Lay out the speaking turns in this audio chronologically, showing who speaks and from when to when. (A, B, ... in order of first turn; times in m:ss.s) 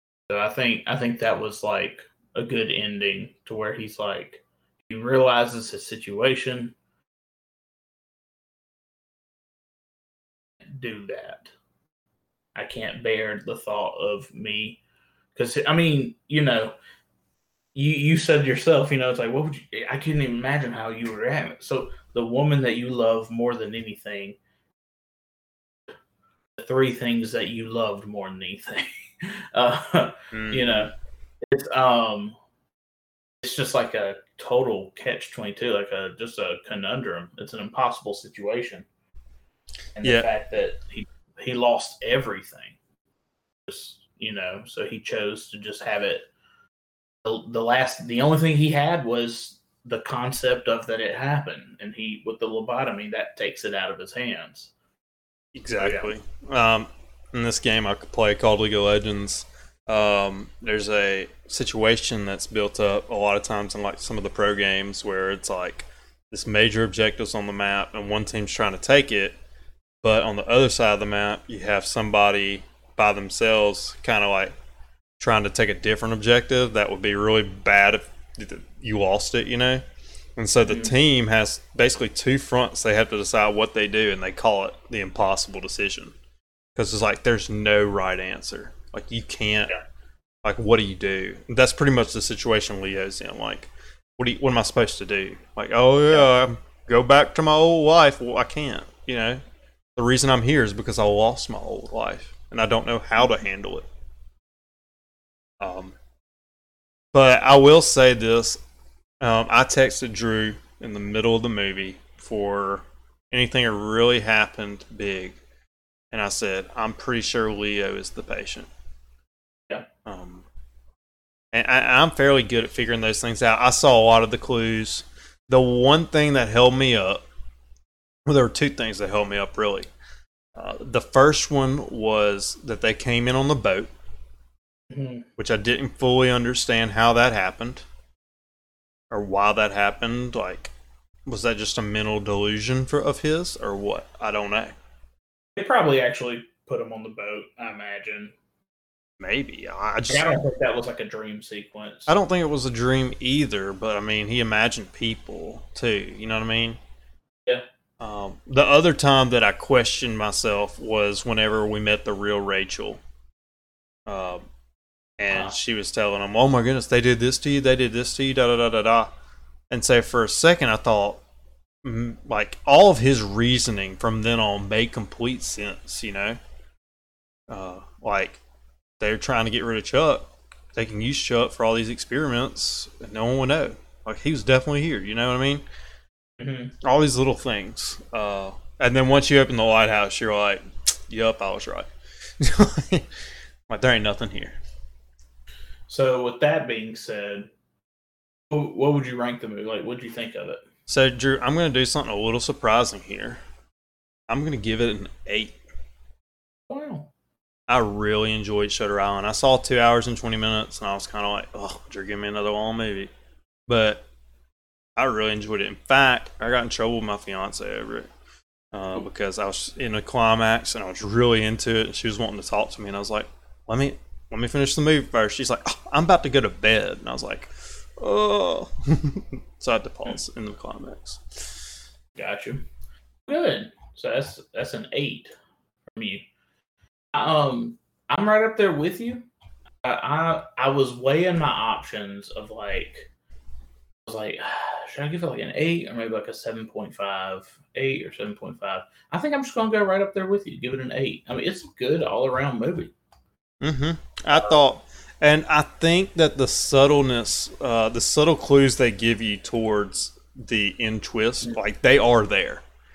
0:00.3-0:06.8 A
0:10.8-0:11.5 A
0:12.6-0:14.8 A
0:15.4-0:16.7 A
0:17.8-0:24.4 A
0:26.6-0:30.9 A
0:30.3-0:30.8 B
0:31.4-0:32.4 A
0:33.4-0:38.9 A
0:40.0-0:42.8 A
0:43.7-0:46.3 A
0:47.2-0:54.7 A
0:55.5-1:09.4 B
0:55.8-0:56.1 A
1:10.0-1:14.5 B
1:15.2-1:19.8 B
1:20.4-1:26.2 B
1:20.7-1:20.9 A
1:26.8-1:29.8 B
1:30.4-1:39.4 B
1:40.0-1:43.9 B
1:45.6-1:46.0 B
1:47.1-1:48.6 B
1:49.2-1:55.4 B
1:56.1-1:58.7 B
2:00.0-2:00.5 B
2:01.5-2:07.2 B
2:08.2-2:09.9 B
2:10.6-2:13.9 B
2:14.9-2:15.3 A
2:15.4-2:17.8 B
2:19.1-2:20.7 B
2:21.3-2:24.8 B
2:25.6-2:28.3 A
2:29.2-2:30.3 B
2:30.1-2:32.1 A
2:32.1-2:36.8 B
2:38.0-2:43.0 B
2:44.1-2:44.4 B
2:45.2-2:49.1 B
2:49.7-2:51.2 B
2:51.8-2:56.4 B
2:57.5-2:58.4 B
2:59.0-3:05.6 B
3:06.4-3:06.8 A
3:06.8-3:11.9 B
3:12.4-3:13.1 B
3:13.7-3:14.6 B
3:15.9-3:17.5 A
3:18.5-3:20.6 A
3:20.9-3:23.4 B
3:24.3-3:25.6 B
3:26.7-3:27.1 A
3:27.7-3:33.1 B
3:33.7-3:34.0 B
3:35.0-3:38.1 B
3:38.7-3:51.6 B
3:52.2-3:52.6 A
3:53.3-3:55.3 A
3:55.9-3:56.3 A
3:57.1-3:59.3 A
3:59.8-4:03.1 A
4:04.1-4:12.9 A
4:13.6-4:22.6 B